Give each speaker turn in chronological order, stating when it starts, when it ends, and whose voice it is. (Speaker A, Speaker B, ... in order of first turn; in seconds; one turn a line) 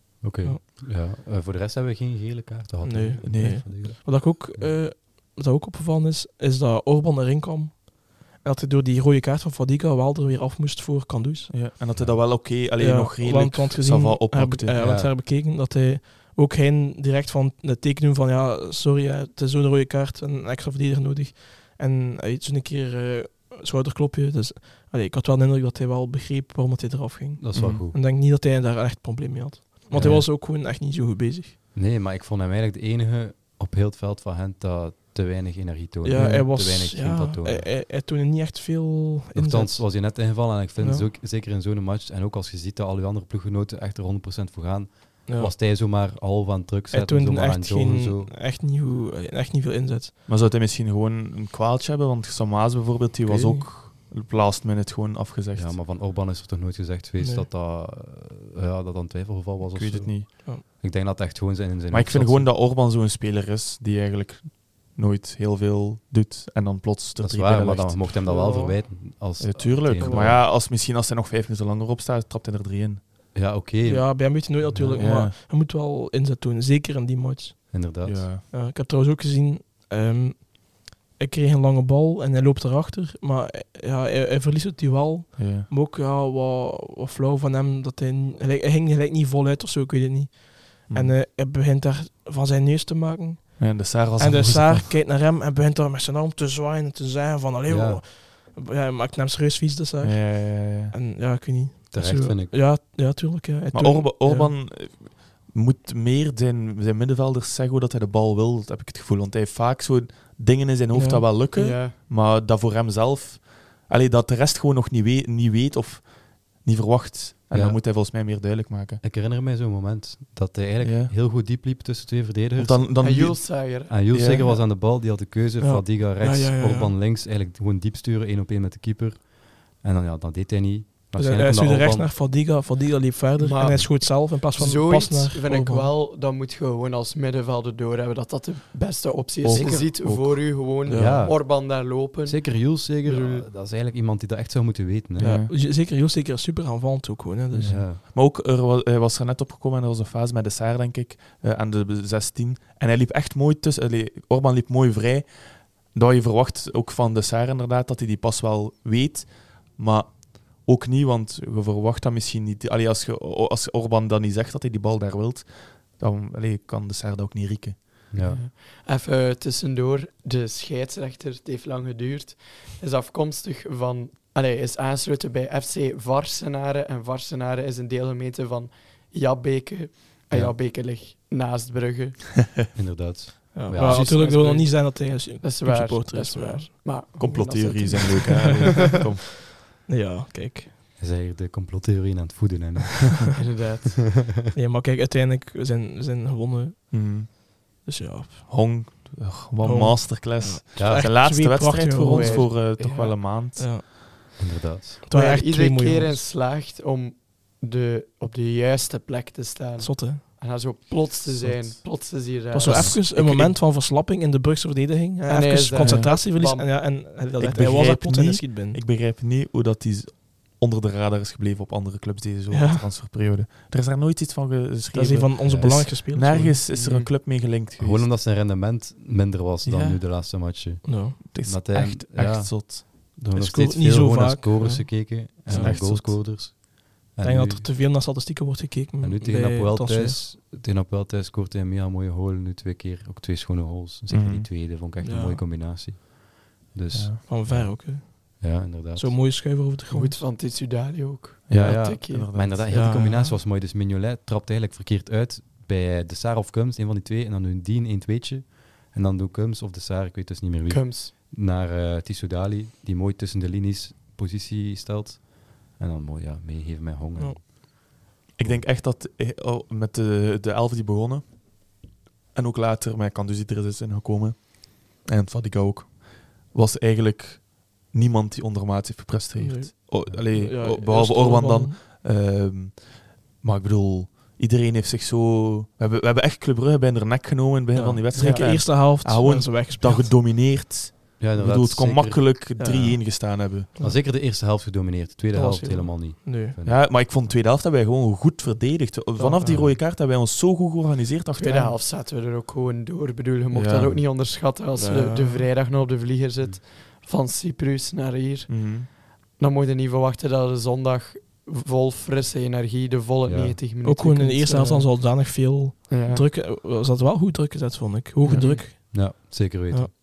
Speaker A: 0.2-4.8
Speaker B: 2.8-11.7
Speaker C: 3.2-3.6
Speaker C: 11.5-14.8
Speaker B: 12.6-31.6
Speaker A: 14.8-15.1
Speaker A: 27.4-28.0
Speaker C: 27.5-27.8
Speaker A: 29.9-30.3
Speaker A: 31.7-37.7
Speaker B: 36.0-41.1
Speaker C: 36.1-36.5
Speaker A: 39.3-48.4
Speaker B: 45.3-45.5
Speaker B: 46.9-50.1
Speaker C: 50.3-55.8
Speaker B: 53.2-53.8
Speaker A: 55.5-62.5
Speaker B: 57.2-57.5
Speaker C: 59.7-60.3
Speaker C: 61.9-68.2
Speaker A: 67.2-70.4
Speaker B: 68.2-68.8
Speaker C: 69.4-73.1
Speaker B: 70.0-70.3
Speaker A: 73.3-75.1
Speaker B: 73.8-77.8
Speaker C: 74.8-75.3
Speaker A: 77.7-78.3
Speaker C: 78.0-78.4
Speaker B: 78.5-104.5
Speaker C: 85.4-85.7
Speaker C: 90.9-91.2
Speaker C: 93.6-95.0
Speaker A: 97.7-98.0
Speaker C: 100.0-101.0
Speaker A: 101.9-102.6
Speaker C: 103.7-119.0
Speaker B: 110.9-111.4
Speaker D: 111.5-112.0
Speaker A: 117.5-117.8
Speaker A: 119.0-123.0
Speaker C: 120.8-121.1
Speaker C: 122.6-124.5
Speaker D: 123.0-124.3
Speaker A: 123.9-132.1
Speaker B: 125.6-126.9
Speaker B: 131.2-135.9
Speaker D: 133.4-143.5
Speaker C: 139.4-141.1
Speaker B: 139.6-139.8
Speaker A: 140.8-145.4
Speaker B: 140.9-141.1
Speaker C: 145.2-145.5
Speaker B: 145.2-147.8
Speaker C: 147.5-168.1
Speaker A: 147.7-148.0
Speaker A: 168.1-168.4
Speaker D: 168.2-182.3
Speaker A: 180.3-180.6
Speaker A: 182.7-184.2
Speaker B: 183.5-186.8
Speaker D: 183.8-188.6
Speaker C: 187.1-189.3
Speaker B: 189.8-190.7
Speaker A: 191.0-193.4
Speaker D: 193.4-194.1
Speaker B: 194.5-198.9
Speaker C: 196.9-197.3
Speaker C: 198.5-203.9
Speaker B: 199.6-202.8
Speaker A: 200.8-201.2
Speaker D: 202.1-203.2
Speaker B: 203.6-203.8
Speaker A: 204.4-205.0
Speaker B: 205.1-206.2
Speaker D: 205.1-213.0
Speaker B: 209.8-210.2
Speaker C: 211.3-211.9
Speaker B: 212.5-218.8
Speaker C: 212.7-213.6
Speaker D: 215.3-216.7
Speaker C: 215.8-216.1
Speaker C: 217.4-228.1
Speaker B: 222.5-222.9
Speaker B: 224.9-226.6
Speaker A: 225.4-225.9
Speaker D: 226.7-227.1
Speaker A: 227.8-237.7
Speaker C: 229.7-229.9
Speaker B: 230.8-231.2
Speaker C: 231.2-232.9
Speaker B: 233.3-235.9
Speaker C: 235.5-236.2
Speaker B: 237.2-240.2
Speaker A: 239.0-249.2
Speaker C: 244.1-244.5
Speaker B: 245.0-245.4
Speaker C: 246.9-247.2
Speaker B: 247.3-250.2
Speaker D: 249.9-252.3
Speaker C: 251.5-252.7
Speaker A: 251.5-267.7
Speaker B: 252.7-253.4
Speaker D: 260.7-261.1
Speaker C: 268.4-271.8
Speaker C: 272.3-293.7
Speaker B: 279.4-281.8
Speaker B: 287.7-290.1
Speaker A: 291.2-292.3
Speaker B: 292.6-294.0
Speaker A: 293.8-296.9
Speaker B: 295.3-296.6
Speaker C: 296.6-301.8
Speaker B: 299.2-299.7
Speaker A: 299.5-299.7
Speaker D: 301.4-315.2
Speaker C: 303.5-304.0
Speaker B: 304.8-305.5
Speaker C: 308.5-308.9
Speaker A: 313.2-313.6
Speaker B: 313.8-319.9
Speaker D: 315.9-316.3
Speaker C: 318.3-318.6
Speaker D: 318.3-318.6
Speaker A: 318.9-319.9